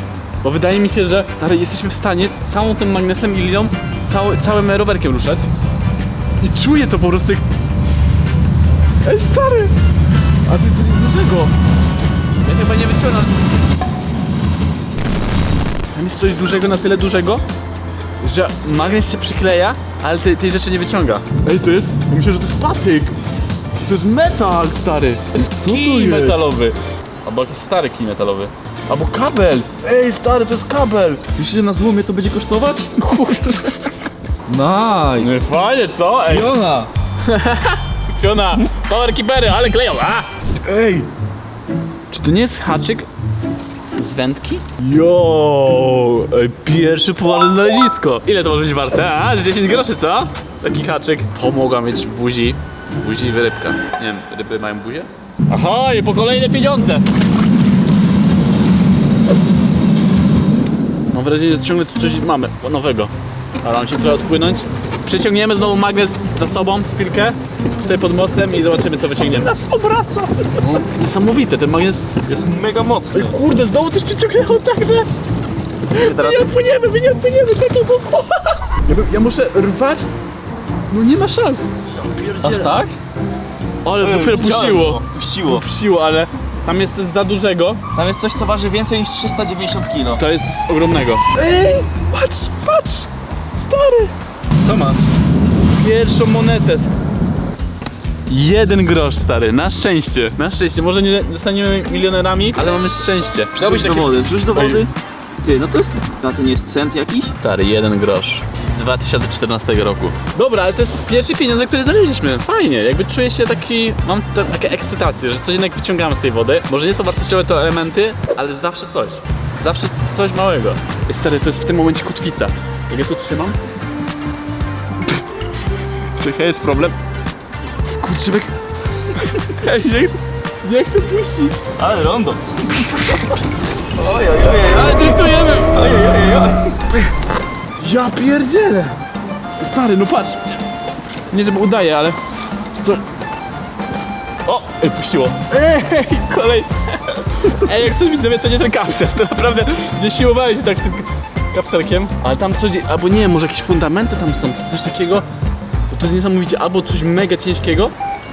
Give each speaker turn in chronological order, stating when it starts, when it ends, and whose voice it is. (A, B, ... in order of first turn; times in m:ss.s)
0:00.4-0:05.5 A
0:06.4-0:07.5 A
0:09.0-0:09.8 A
0:10.5-0:11.5 A
0:12.4-0:13.6 A
0:15.9-0:17.4 A
0:18.2-0:23.2 A
0:23.8-0:31.2 A
0:25.4-0:26.5 B
0:31.4-0:32.9 B
0:33.0-0:33.9 A
0:34.5-0:35.5 B
0:35.2-0:36.6 A
0:36.3-0:36.9 B
0:37.2-0:40.3 A
0:40.6-0:41.1 B
0:42.1-0:43.1 A
0:44.0-0:57.1 A
1:01.1-1:12.1 A
1:12.2-1:13.4 B
1:13.1-1:15.1 A
1:15.9-1:20.1 A
1:15.9-1:16.5 B
1:20.9-1:21.7 A
1:22.0-1:22.8 B
1:22.4-1:23.0 A
1:23.8-1:27.8 A
1:24.0-1:25.7 B
1:27.9-1:30.2 B
1:30.2-1:35.1 A
1:31.4-1:31.9 B
1:35.7-1:36.9 A
1:38.3-1:44.9 A
1:43.6-1:44.9 B
1:45.4-1:47.3 B
1:47.4-2:03.6 A
2:06.2-2:07.0 A
2:07.8-2:08.5 A
2:09.1-2:11.6 A
2:11.8-2:12.4 B
2:12.8-2:13.2 A
2:14.0-2:16.8 B
2:14.5-2:15.8 A
2:17.8-2:19.0 A
2:19.6-2:20.6 A
2:21.3-2:22.2 A
2:22.8-2:23.0 A
2:24.5-2:35.3 A
2:35.9-2:37.9 A